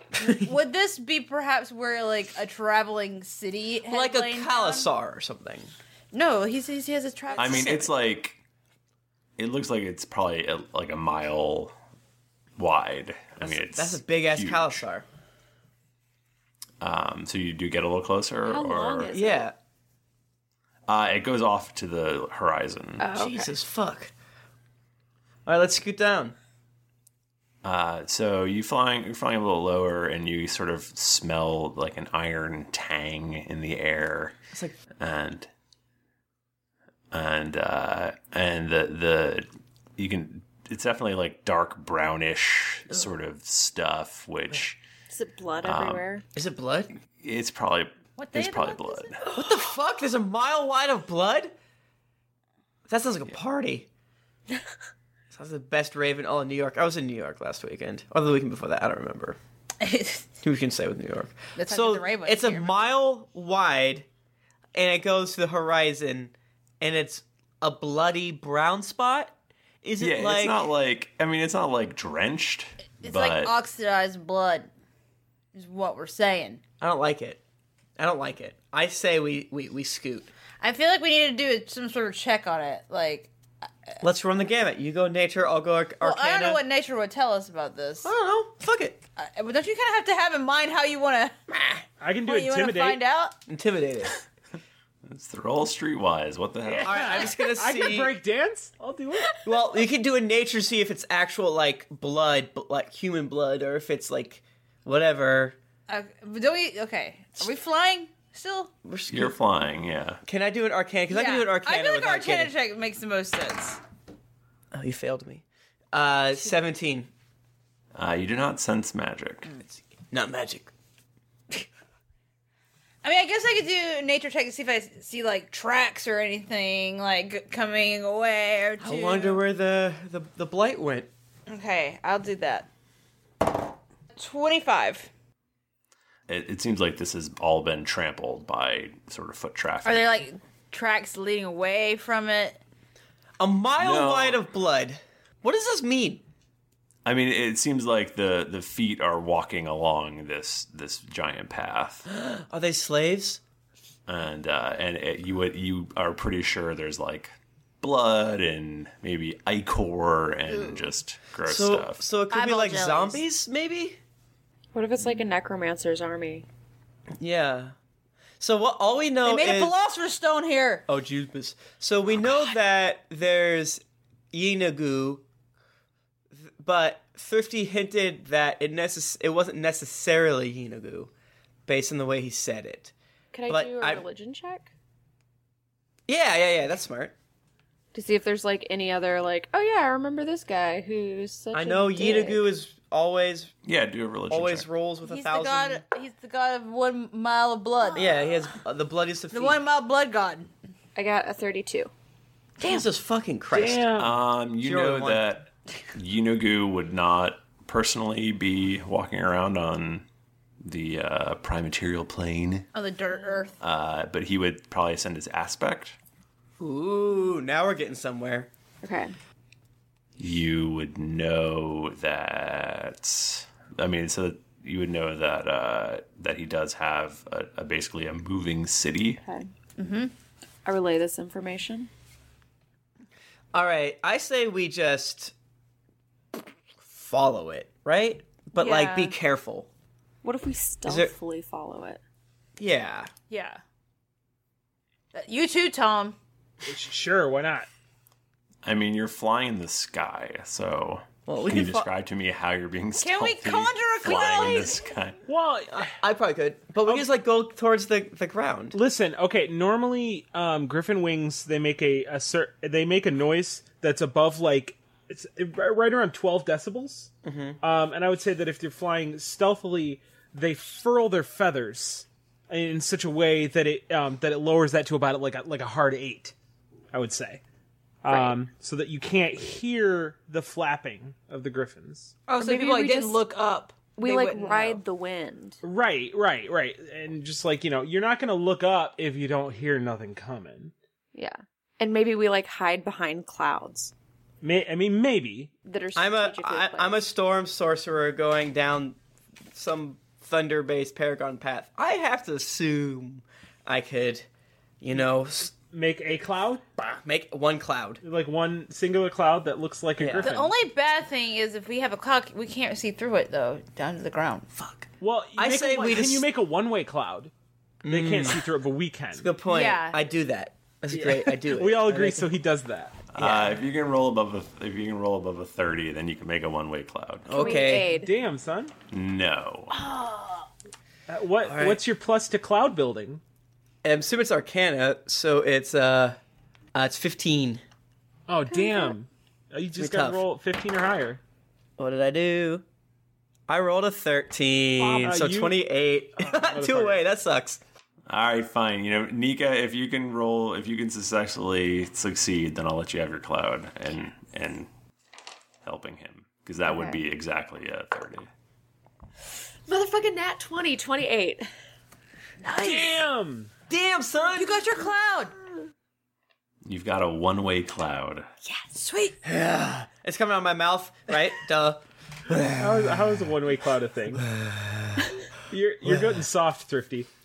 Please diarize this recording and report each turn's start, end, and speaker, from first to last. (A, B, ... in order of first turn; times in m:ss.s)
0:00.2-0:04.9 A
0:03.9-0:05.7 B
0:06.1-0:07.9 A
0:07.3-0:07.7 B
0:07.4-0:08.4 C
0:09.4-0:11.7 C
0:12.6-0:14.8 C
0:13.4-0:15.0 B
0:16.8-0:19.2 C
0:18.4-0:19.5 D
0:19.1-0:19.5 B
0:20.9-0:23.1 C
0:23.0-0:23.5 D
0:23.1-0:24.1 B
0:25.4-0:26.3 B
0:27.6-0:34.3 C
0:35.0-0:35.5 C
0:37.1-0:39.4 C
0:40.0-0:44.8 C
0:45.1-0:46.2 D
0:45.6-0:46.1 C
0:46.3-0:46.9 B
0:47.2-0:49.2 C
0:48.2-0:49.2 A
0:49.2-0:51.5 B
0:52.9-0:53.9 B
0:55.3-0:59.4 B
0:59.8-1:00.3 A
1:00.4-1:04.1 B
1:01.6-1:02.9 A
1:04.7-1:10.7 B
1:10.0-1:13.5 C
1:13.0-1:14.7 A
1:15.5-1:16.6 A
1:16.8-1:17.4 B
1:18.0-1:20.3 B
1:20.6-1:23.3 A
1:24.0-1:26.6 B
1:26.0-1:28.1 A
1:28.0-1:29.0 B
1:29.2-1:31.3 A
1:32.0-1:33.0 E
1:32.2-1:33.3 A
1:33.5-1:34.2 B
1:35.0-1:37.2 C
1:36.6-1:39.4 E
1:36.8-1:38.1 B
1:39.4-1:45.6 B
1:45.9-1:48.7 A
1:48.8-1:49.4 B
1:49.1-1:50.2 C
1:50.2-1:52.5 B
1:51.1-1:53.8 A
1:54.7-1:57.1 B
1:57.9-1:59.5 C
2:00.1-2:00.7 B
2:03.0-2:09.4 A
2:08.8-2:11.1 B
2:11.5-2:12.7 A
2:14.1-2:15.1 A
2:16.3-2:20.2 C
2:19.8-2:22.6 A
2:23.4-2:26.2 B
2:23.8-2:24.4 C
2:27.0-2:32.0 C
2:32.1-2:33.4 B
2:34.1-2:42.0 C
2:40.5-2:40.8 B
2:41.4-2:44.0 B
2:42.3-2:43.2 A
2:44.7-2:46.4 D
2:47.2-2:47.7 B
2:48.4-2:49.7 B
2:49.2-2:50.8 A
2:50.9-2:55.2 B
2:56.3-3:01.1 B
3:01.7-3:02.9 B
3:03.3-3:04.7 D
3:03.5-3:04.0 B
3:06.1-3:07.1 B
3:07.9-3:12.4 D
3:11.5-3:13.5 B
3:13.6-3:14.7 C
3:14.3-3:15.8 B
3:15.0-3:18.3 A
3:17.9-3:19.6 B
3:19.3-3:20.5 A
3:20.9-3:21.9 D
3:22.6-3:23.9 B
3:23.5-3:24.2 E
3:24.0-3:30.0 C
3:24.6-3:25.2 B
3:30.6-3:32.7 C
3:32.7-3:33.6 A
3:33.6-3:36.0 C
3:36.6-3:38.5 B
3:38.8-3:39.1 D
3:40.2-3:49.2 C
3:49.2-3:49.5 D
3:49.8-3:50.1 A
3:50.6-3:51.9 D
3:53.5-3:55.3 B
3:56.9-3:59.7 B
3:58.6-3:59.1 A
4:00.2-4:02.0 D
4:00.8-4:01.1 B
4:02.6-4:03.1 B
4:03.3-4:03.6 A
4:05.1-4:06.2 A
4:06.6-4:07.7 E
4:08.6-4:15.2 C
4:11.3-4:11.9 B
4:13.0-4:14.8 A
4:15.2-4:16.0 E
4:15.8-4:18.8 B
4:18.7-4:27.1 E
4:27.2-4:27.6 B
4:27.6-4:36.3 E
4:36.9-4:37.4 E
4:38.0-4:42.2 E
4:38.1-4:38.4 D
4:42.3-4:44.8 A
4:42.4-4:43.2 D
4:44.0-4:45.6 D
4:45.6-4:50.7 E
4:51.1-4:53.9 D
4:54.4-4:55.5 E
4:55.6-4:57.0 D
4:55.9-4:59.0 B
4:59.5-5:04.3 B
5:04.8-5:05.5 B
5:05.5-5:06.6 E
5:07.0-5:08.0 B
5:08.0-5:10.5 E
5:10.0-5:10.3 B
5:10.2-5:14.5 A
5:14.5-5:16.3 B
5:15.0-5:17.3 E
5:17.8-5:18.4 B
5:17.9-5:19.3 E
5:19.1-5:22.3 B
5:19.4-5:20.0 A
5:20.9-5:23.0 E
5:23.1-5:27.5 C
5:23.2-5:23.6 B
5:27.2-5:27.9 B
5:27.3-5:28.1 D
5:27.8-5:28.7 E
5:28.9-5:29.7 C
5:29.8-5:30.4 A
5:31.1-5:33.2 E
5:31.4-5:31.8 B
5:33.8-5:36.2 B
5:36.7-5:37.6 B
5:38.3-5:41.2 E
5:38.6-5:38.9 D
5:39.8-5:40.2 B
5:41.8-5:42.6 B
5:43.5-5:47.6 B
5:44.8-5:47.0 E
5:48.1-5:54.7 C
5:55.6-5:58.3 C
5:56.7-5:57.0 D
5:59.7-6:01.5 D
6:02.4-6:03.0 A
6:02.6-6:03.5 E
6:03.7-6:04.6 B
6:04.4-6:05.3 A
6:06.6-6:08.2 C
6:08.5-6:09.2 A
6:09.2-6:12.9 B
6:12.6-6:14.2 E
6:14.2-6:15.1 B
6:15.5-6:17.1 E
6:15.8-6:16.2 B